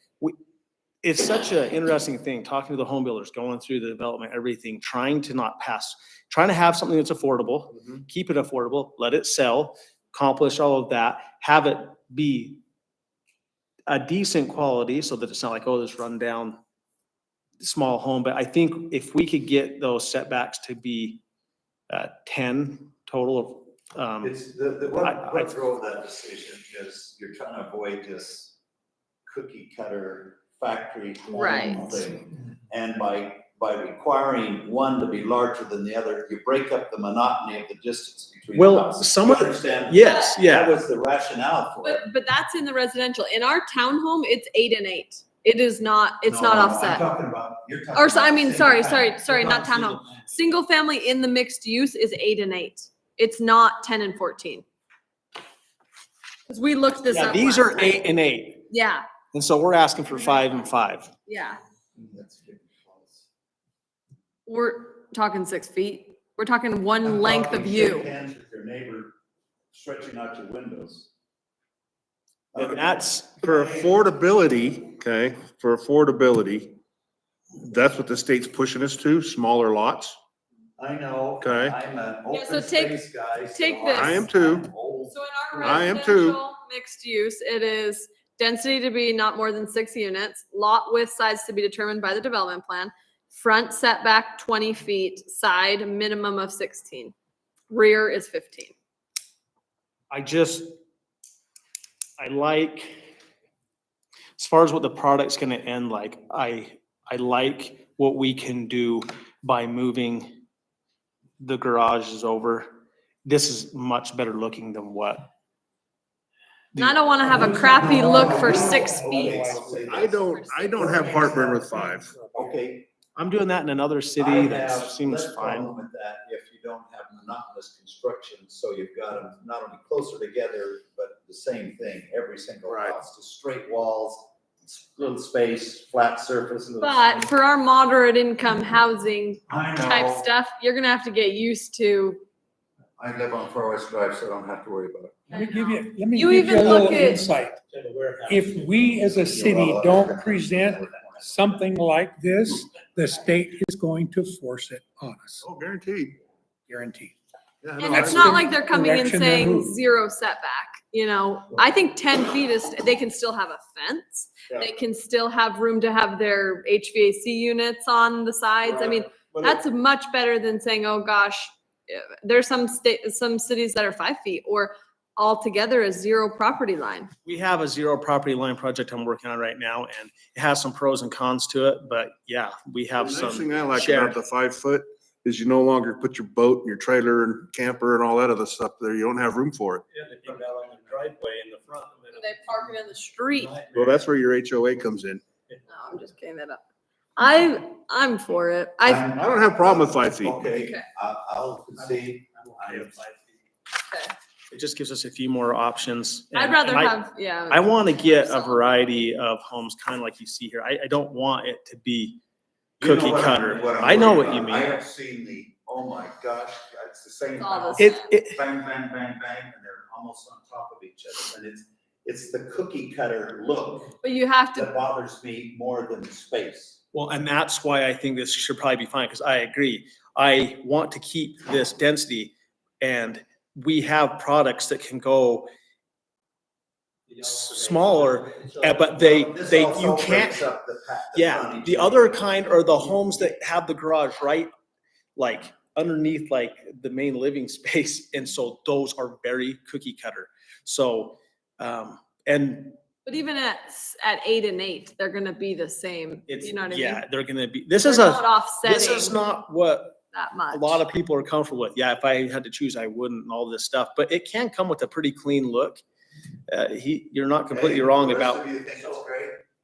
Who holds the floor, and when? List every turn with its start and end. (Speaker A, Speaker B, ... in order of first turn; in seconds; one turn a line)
Speaker A: 1.0-12.6
Speaker A: 13.9-16.6
Speaker A: 17.6-21.2
Speaker A: 21.9-24.4
Speaker B: 24.2-28.6
Speaker A: 25.0-25.6
Speaker B: 29.3-42.0
Speaker C: 31.3-32.0
Speaker A: 38.5-40.8
Speaker C: 40.0-40.3
Speaker C: 41.8-47.0
Speaker B: 46.3-49.2
Speaker C: 47.9-54.6
Speaker A: 49.3-50.3
Speaker C: 56.5-58.0
Speaker A: 57.1-58.7
Speaker C: 58.7-59.0
Speaker A: 59.3-61.1
Speaker C: 61.3-61.6
Speaker B: 62.0-63.2
Speaker C: 64.5-68.1
Speaker B: 67.0-69.1
Speaker B: 69.7-71.1
Speaker B: 72.5-72.9
Speaker A: 72.5-73.4
Speaker D: 73.4-76.8
Speaker B: 73.4-73.9
Speaker D: 77.6-80.2
Speaker B: 80.8-85.9
Speaker D: 81.4-81.8
Speaker C: 82.3-84.2
Speaker D: 83.9-84.7
Speaker C: 85.1-97.1
Speaker D: 85.6-86.4
Speaker C: 97.7-98.7
Speaker A: 100.1-100.7
Speaker A: 102.2-103.1
Speaker A: 104.4-110.4
Speaker A: 111.4-112.7
Speaker A: 113.2-115.3
Speaker C: 116.8-121.6
Speaker B: 117.3-121.7
Speaker E: 117.4-119.8
Speaker D: 119.7-122.1
Speaker E: 121.8-122.6
Speaker B: 122.3-122.9
Speaker A: 123.2-125.7
Speaker B: 124.2-137.0
Speaker D: 132.7-133.0
Speaker C: 136.8-142.2
Speaker B: 139.5-140.2
Speaker B: 143.0-145.1
Speaker E: 145.3-147.6
Speaker C: 145.4-147.2
Speaker F: 147.7-149.2
Speaker E: 148.3-155.4
Speaker B: 149.2-151.6
Speaker D: 155.4-156.2
Speaker E: 156.7-157.2
Speaker D: 157.6-158.5
Speaker C: 157.8-177.1
Speaker E: 157.8-159.8
Speaker D: 168.7-169.6
Speaker A: 177.2-184.2
Speaker D: 183.0-189.8
Speaker F: 189.9-192.5
Speaker C: 192.1-193.6
Speaker F: 193.3-194.1
Speaker D: 193.7-195.2
Speaker C: 195.7-196.6
Speaker C: 197.2-199.1
Speaker B: 198.8-203.0
Speaker D: 199.2-200.4
Speaker C: 200.5-200.8
Speaker F: 201.8-203.3
Speaker C: 203.9-204.1
Speaker A: 204.5-212.2
Speaker C: 206.3-208.8
Speaker A: 212.8-214.8
Speaker B: 212.8-224.0
Speaker C: 217.4-218.1
Speaker A: 217.8-218.4
Speaker C: 224.0-224.7
Speaker B: 224.5-226.8
Speaker A: 226.9-235.5
Speaker F: 237.1-239.0
Speaker A: 237.2-240.5
Speaker B: 239.0-242.2
Speaker A: 241.2-244.5
Speaker A: 245.2-252.8
Speaker C: 253.1-257.0
Speaker A: 256.3-260.0
Speaker C: 257.8-259.2
Speaker C: 260.1-260.8
Speaker A: 260.5-265.8
Speaker A: 266.5-268.4
Speaker B: 267.5-269.4